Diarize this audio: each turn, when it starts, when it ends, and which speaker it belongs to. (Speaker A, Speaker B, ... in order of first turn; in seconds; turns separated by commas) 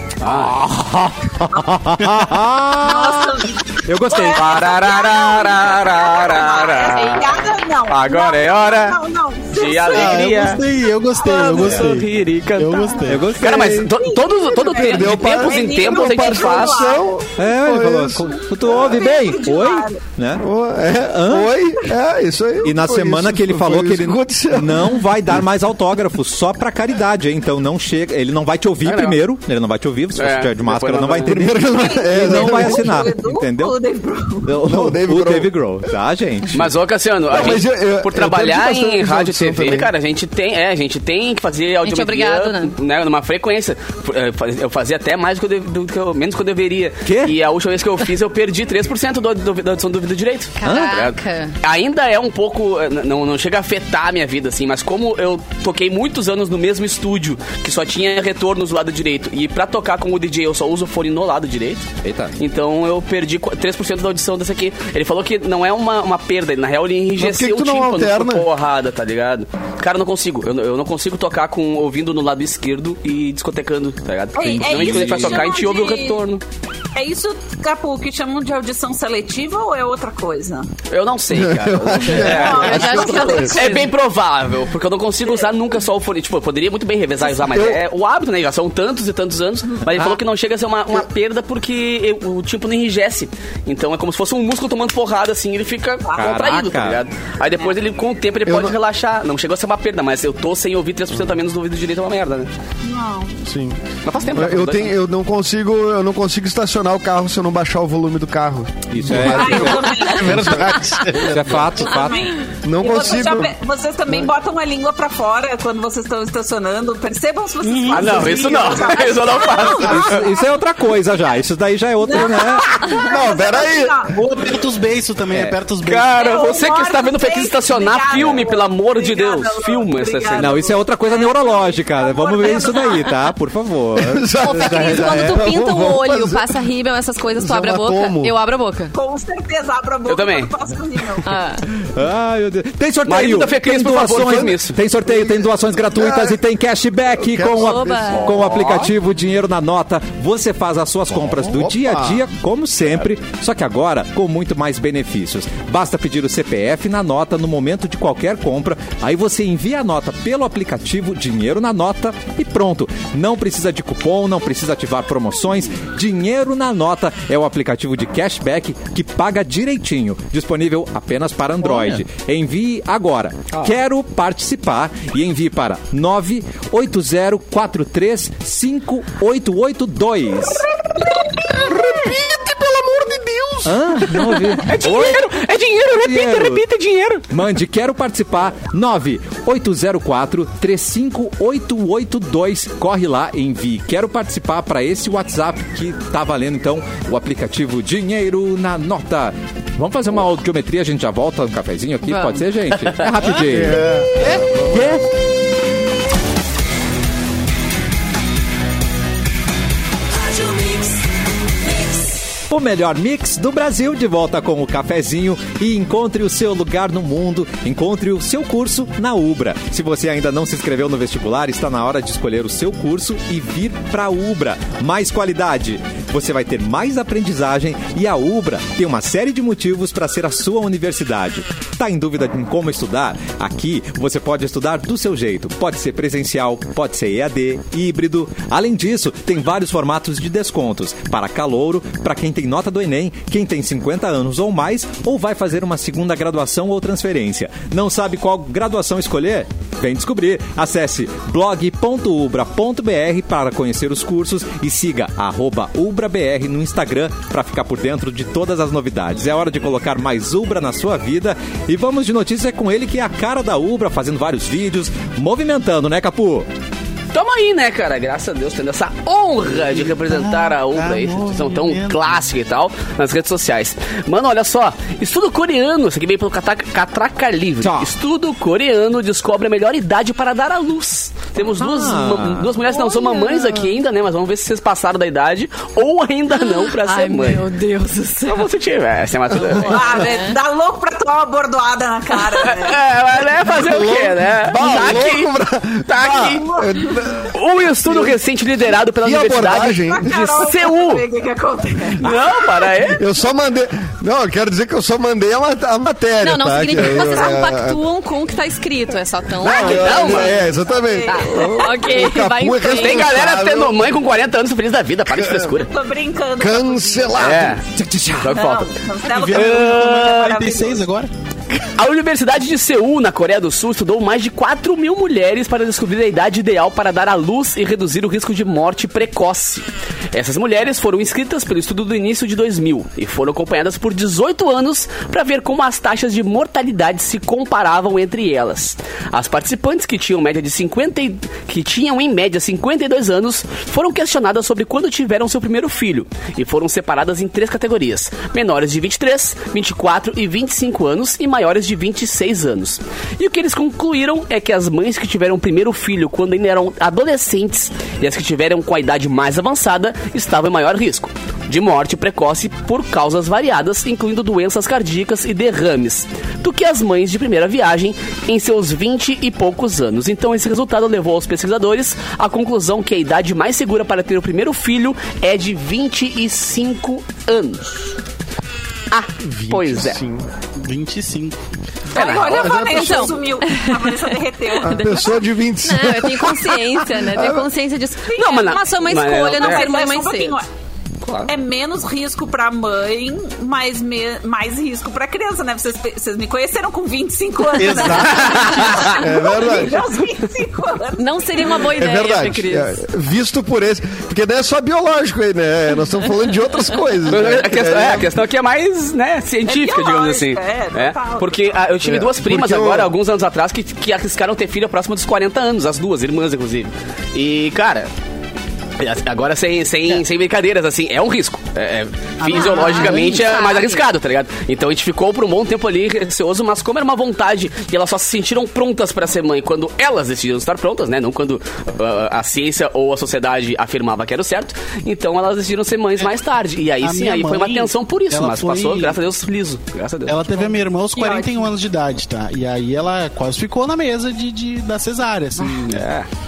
Speaker A: 0.2-0.6, Speaker B: 0.2-4.6, Speaker C: 2.8-10.4, Speaker A: 4.3-9.0, Speaker A: 9.5-10.6, Speaker D: 9.9-13.4, Speaker A: 11.2-17.0, Speaker B: 11.6-11.9, Speaker B: 13.1-13.9, Speaker C: 14.0-17.3, Speaker E: 14.7-18.3, Speaker B: 17.4-20.4, Speaker C: 18.6-20.0, Speaker E: 20.4-25.4, Speaker B: 21.1-21.5, Speaker B: 22.6-33.8, Speaker A: 28.9-29.2, Speaker A: 30.2-31.4, Speaker E: 31.3-33.1, Speaker C: 31.8-34.6, Speaker B: 34.5-36.7, Speaker E: 34.6-35.5, Speaker A: 36.5-76.4, Speaker E: 37.3-39.9, Speaker F: 41.8-42.8, Speaker B: 47.0-47.4, Speaker F: 50.6-51.5, Speaker B: 50.6-50.9, Speaker B: 62.0-62.4, Speaker E: 67.2-68.5, Speaker C: 74.3-76.2, Speaker B: 74.4-75.5, Speaker C: 77.0-80.7, Speaker A: 80.9-102.5, Speaker E: 81.3-83.6, Speaker C: 82.2-83.9, Speaker F: 82.5-83.9, Speaker E: 87.5-87.8, Speaker C: 96.0-96.4, Speaker B: 96.2-97.0, Speaker E: 98.5-98.8, Speaker C: 102.8-103.4, Speaker E: 103.4-110.9, Speaker A: 104.0-105.0, Speaker B: 108.9-109.9, Speaker C: 109.2-110.6, Speaker D: 110.1-111.7, Speaker B: 111.2-112.3, Speaker C: 111.8-120.5, Speaker E: 112.6-113.5, Speaker D: 117.7-119.0, Speaker A: 117.8-120.3, Speaker B: 119.7-122.8, Speaker C: 122.0-124.2, Speaker E: 122.9-124.0, Speaker D: 124.1-126.2, Speaker B: 125.3-125.6, Speaker A: 125.8-130.6, Speaker C: 126.1-133.2, Speaker B: 130.3-135.4, Speaker E: 134.0-136.5, Speaker F: 134.4-138.9, Speaker E: 137.4-138.3, Speaker C: 138.9-141.3, Speaker A: 140.1-140.5, Speaker F: 141.2-141.7, Speaker B: 141.8-180.6, Speaker A: 143.1-144.8, Speaker E: 145.0-146.4, Speaker E: 147.2-148.4, Speaker F: 147.6-148.2, Speaker A: 148.1-148.9, Speaker E: 151.1-152.2, Speaker E: 181.0-183.8, Speaker B: 183.7-185.3, Speaker A: 184.1-187.3, Speaker B: 185.9-186.6, Speaker B: 187.3-204.0, Speaker F: 202.1-202.4, Speaker D: 203.3-204.7, Speaker E: 203.5-204.4, Speaker B: 204.6-205.1, Speaker B: 212.5-266.5, Speaker A: 267.1-287.4, Speaker D: 269.9-272.2, Speaker B: 277.6-277.9, Speaker B: 281.6-282.6, Speaker F: 282.6-283.7, Speaker F: 286.4-288.5, Speaker A: 288.3-289.9, Speaker F: 289.6-290.4, Speaker C: 289.6-292.8, Speaker A: 292.4-295.3, Speaker E: 293.5-298.2, Speaker A: 295.9-296.5, Speaker C: 296.2-296.9, Speaker A: 297.3-301.0, Speaker E: 299.0-300.1, Speaker C: 299.5-303.0, Speaker A: 302.0-303.1, Speaker E: 302.9-307.8, Speaker F: 306.2-310.3, Speaker E: 309.4-313.9, Speaker C: 309.5-311.8, Speaker A: 309.5-310.4, Speaker F: 311.1-313.1, Speaker A: 312.6-315.7, Speaker E: 315.1-315.6, Speaker C: 315.6-317.5, Speaker E: 316.4-317.6, Speaker A: 317.2-317.6, Speaker B: 317.7-318.4, Speaker A: 318.2-318.7, Speaker C: 318.3-320.8, Speaker D: 319.0-321.1, Speaker A: 319.3-320.3, Speaker A: 321.5-377.9, Speaker A: 378.9-380.0, Speaker E: 379.2-380.3, Speaker D: 380.6-381.4, Speaker C: 381.9-384.9, Speaker A: 381.9-382.6, Speaker F: 382.0-390.4, Speaker E: 382.1-383.2, Speaker E: 384.6-387.5, Speaker C: 388.1-388.4, Speaker A: 388.2-389.7, Speaker C: 389.3-390.5, Speaker A: 391.0-391.3, Speaker C: 391.3-401.7, Speaker D: 397.6-398.5, Speaker A: 397.9-399.0, Speaker E: 398.6-399.9, Speaker F: 401.0-402.8, Speaker E: 401.8-408.1, Speaker A: 407.1-417.9, Speaker C: 409.5-411.7, Speaker E: 411.8-412.9, Speaker A: 418.8-440.3, Speaker D: 422.3-422.8, Speaker F: 422.3-423.8, Speaker C: 422.3-422.9, Speaker D: 436.8-439.0, Speaker D: 440.1-445.9, Speaker C: 441.0-441.5, Speaker A: 445.7-446.1